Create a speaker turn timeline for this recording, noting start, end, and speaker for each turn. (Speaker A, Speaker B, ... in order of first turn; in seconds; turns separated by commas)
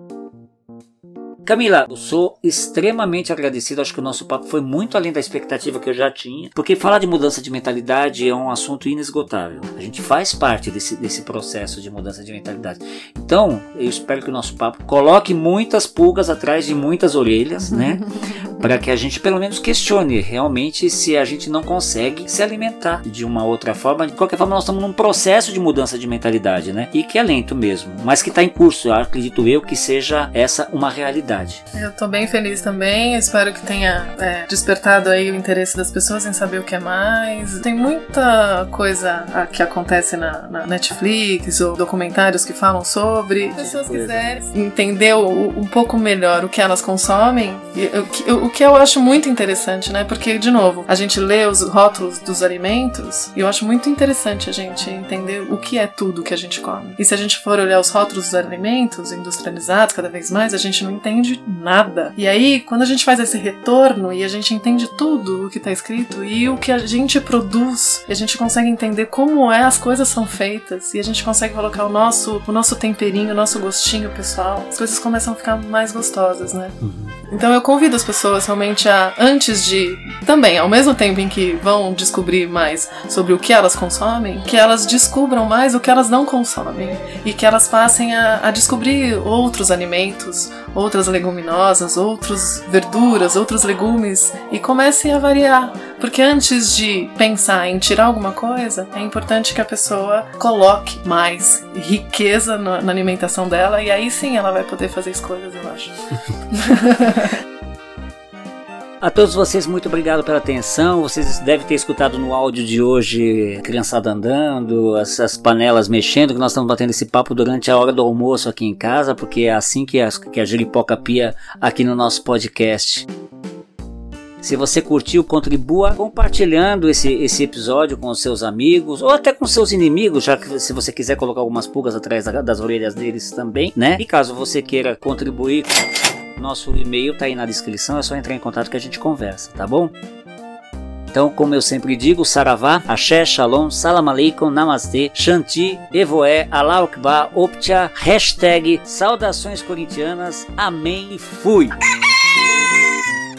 Speaker A: 1.4-18.0, Speaker B: 17.7-18.4, Speaker A: 18.6-31.6, Speaker B: 31.7-76.8, Speaker A: 43.5-44.3, Speaker A: 76.8-77.1, Speaker B: 77.3-105.9, Speaker B: 106.5-107.3, Speaker A: 109.0-123.0, Speaker A: 124.4-135.7, Speaker A: 136.4-139.9, Speaker A: 141.1-151.7